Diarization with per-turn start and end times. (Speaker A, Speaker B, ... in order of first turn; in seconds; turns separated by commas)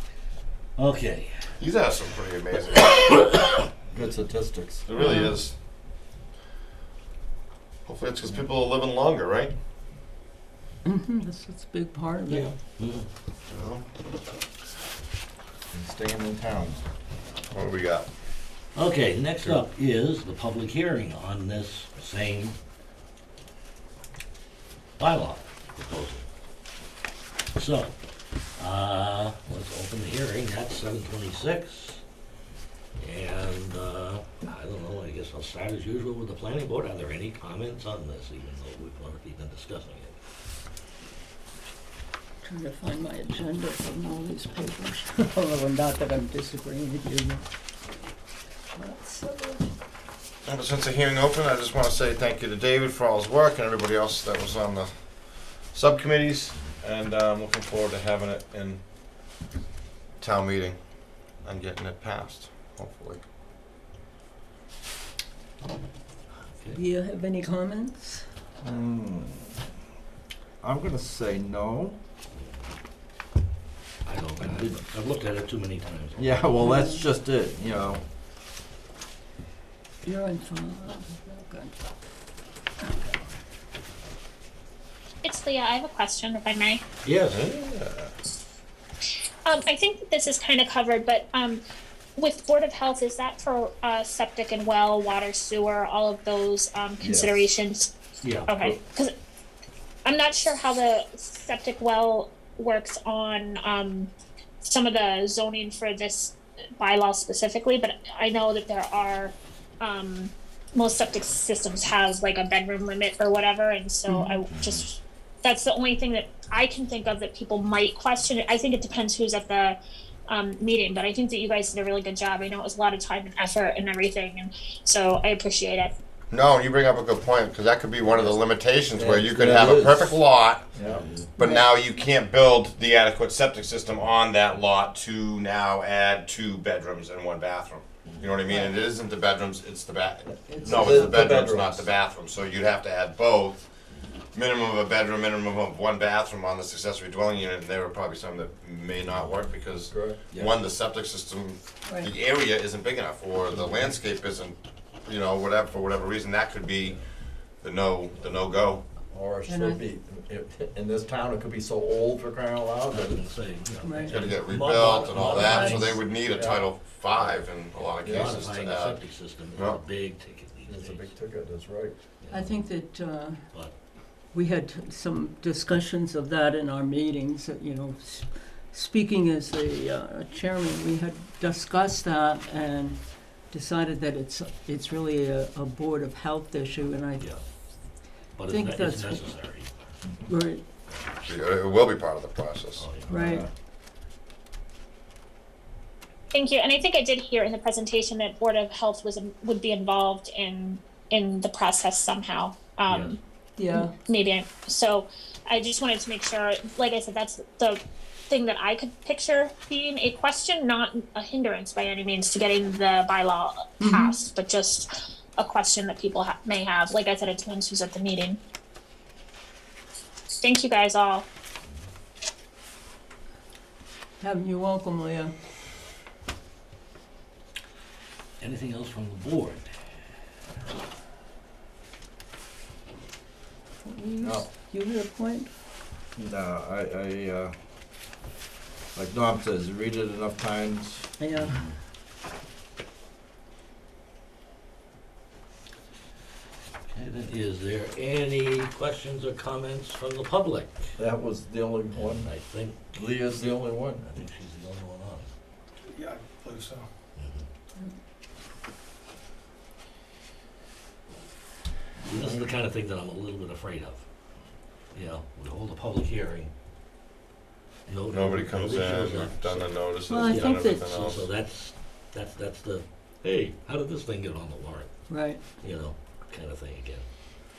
Speaker A: 0.8-1.3, Speaker B: 1.6-3.3, Speaker C: 3.9-4.9, Speaker B: 4.9-5.5, Speaker D: 5.0-5.4, Speaker B: 7.9-9.5, Speaker D: 10.8-12.5, Speaker A: 12.3-13.1, Speaker B: 13.5-13.8, Speaker C: 15.7-16.8, Speaker B: 17.5-18.1, Speaker A: 18.7-22.6, Speaker A: 25.0-26.3, Speaker A: 27.6-28.0, Speaker A: 28.6-32.0, Speaker A: 33.0-40.2, Speaker D: 42.4-47.4, Speaker D: 48.7-49.7, Speaker B: 50.5-54.9, Speaker B: 55.7-58.8, Speaker B: 60.2-60.8, Speaker B: 61.4-63.2, Speaker A: 66.4-66.8, Speaker D: 66.7-68.3, Speaker C: 68.6-69.6, Speaker C: 70.6-72.0, Speaker A: 72.3-72.6, Speaker A: 74.0-76.5, Speaker C: 76.2-78.0, Speaker D: 76.6-77.0, Speaker D: 80.0-81.8, Speaker D: 82.8-83.3, Speaker E: 85.2-86.8, Speaker A: 87.0-87.4, Speaker B: 87.3-88.1, Speaker E: 89.5-91.6, Speaker E: 92.2-97.9, Speaker C: 97.0-97.4, Speaker A: 98.2-98.5, Speaker E: 98.5-99.1, Speaker E: 100.0-104.1, Speaker E: 104.6-119.8, Speaker D: 114.1-114.4, Speaker A: 114.5-114.9, Speaker E: 120.3-125.9, Speaker B: 126.3-130.7, Speaker A: 128.1-128.4, Speaker C: 129.0-130.2, Speaker C: 130.7-131.1, Speaker A: 130.9-131.3, Speaker B: 131.4-143.6, Speaker D: 131.4-131.7, Speaker D: 138.5-138.8, Speaker D: 140.5-141.1, Speaker C: 140.6-141.9, Speaker B: 144.3-157.0, Speaker C: 149.9-150.5, Speaker D: 151.8-152.1, Speaker B: 157.6-158.8, Speaker C: 159.1-163.3, Speaker D: 159.5-159.8, Speaker A: 162.9-166.0, Speaker D: 163.8-164.2, Speaker B: 164.1-169.0, Speaker D: 165.4-166.0, Speaker C: 166.3-166.6, Speaker A: 168.0-171.1, Speaker B: 169.5-169.8, Speaker C: 170.7-172.0, Speaker A: 172.2-172.6, Speaker D: 172.3-173.5, Speaker A: 173.5-173.8, Speaker D: 174.1-187.3, Speaker A: 188.3-189.7, Speaker D: 188.4-189.3, Speaker D: 190.3-190.6, Speaker A: 190.9-191.2, Speaker B: 191.2-192.8, Speaker A: 192.8-193.4, Speaker D: 193.1-193.5, Speaker C: 193.1-193.5, Speaker E: 196.3-203.2, Speaker A: 202.9-203.2, Speaker D: 203.6-204.0, Speaker E: 203.7-218.4, Speaker D: 213.8-214.2, Speaker E: 220.4-221.3, Speaker D: 224.2-225.3, Speaker A: 228.4-229.7, Speaker D: 233.8-235.5, Speaker C: 234.2-234.5, Speaker C: 236.2-237.6, Speaker C: 238.9-241.1, Speaker D: 241.2-241.6, Speaker A: 241.4-241.8, Speaker A: 246.9-250.9, Speaker C: 251.0-252.3, Speaker A: 251.9-252.9, Speaker C: 252.9-254.2, Speaker A: 254.1-255.3, Speaker B: 255.9-256.9, Speaker A: 257.2-257.5, Speaker A: 262.1-264.0, Speaker C: 262.1-262.5, Speaker A: 264.9-266.5, Speaker A: 267.9-277.1, Speaker B: 268.1-271.3, Speaker D: 270.1-270.8, Speaker D: 275.1-275.4